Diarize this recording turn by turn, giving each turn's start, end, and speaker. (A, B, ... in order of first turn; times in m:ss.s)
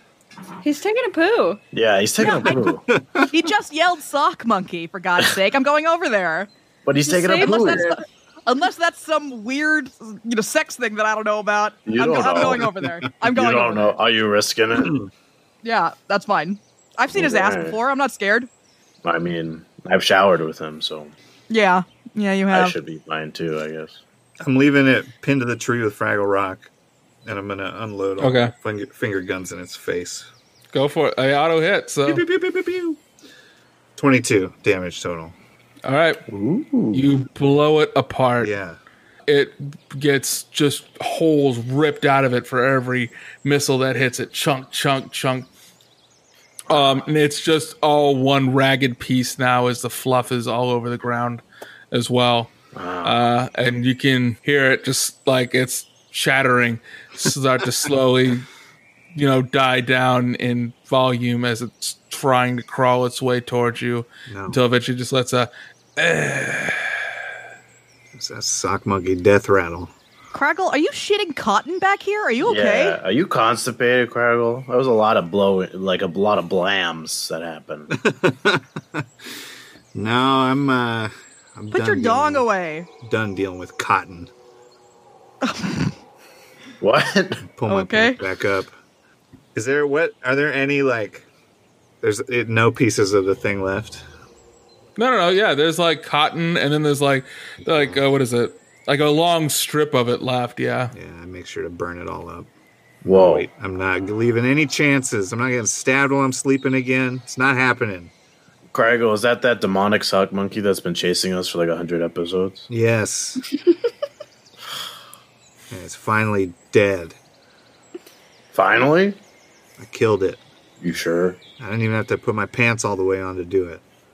0:00.6-0:01.6 A
0:01.7-0:02.8 B
0:02.2-0:02.6 C
0:02.3-0:03.3 D
0:03.3-0:06.5 C
0:06.8-0:07.9 B
0:07.1-0:08.0 A
0:07.3-0:14.0 C
0:11.9-0:12.7 B
0:13.2-0:15.0 B
0:14.8-0:15.1 D
0:15.6-0:18.5 C
0:17.1-0:17.8 B
0:19.0-0:21.1 B
0:21.5-0:22.7 C
0:22.5-0:24.0 B
0:24.4-0:26.7 D
0:27.2-0:30.3 D
0:28.2-0:28.5 E
0:30.7-0:32.2 E
0:32.0-0:33.0 D
0:34.0-0:35.3 D
0:35.8-0:36.2 E
0:36.3-0:37.0 B
0:36.9-0:38.5 E
0:38.4-0:38.8 D
0:39.3-0:45.5 E
0:46.7-0:52.5 E
0:46.7-0:47.0 B
0:52.7-0:53.2 B
0:53.0-0:58.4 E
0:59.1-1:07.0 E
1:04.3-1:04.6 D
1:08.1-1:09.9 D
1:10.3-1:13.0 C
1:12.4-1:17.9 B
1:17.9-1:19.4 D
1:19.9-1:22.5 D
1:21.7-1:22.9 C
1:23.0-1:24.3 D
1:25.4-1:25.9 C
1:26.8-1:27.4 B
1:27.4-1:28.7 D
1:27.7-1:28.2 C
1:29.5-1:31.3 D
1:32.0-1:34.0 D
1:35.0-1:40.9 E
1:37.6-1:38.0 D
1:40.9-1:42.5 D
1:43.0-1:48.1 D
1:43.0-1:43.4 B
1:48.7-1:52.7 B
1:52.7-1:53.4 D
1:55.7-1:57.2 D
1:58.5-1:59.2 B
1:59.8-2:00.4 D
2:00.8-2:01.4 B
2:01.6-2:03.8 D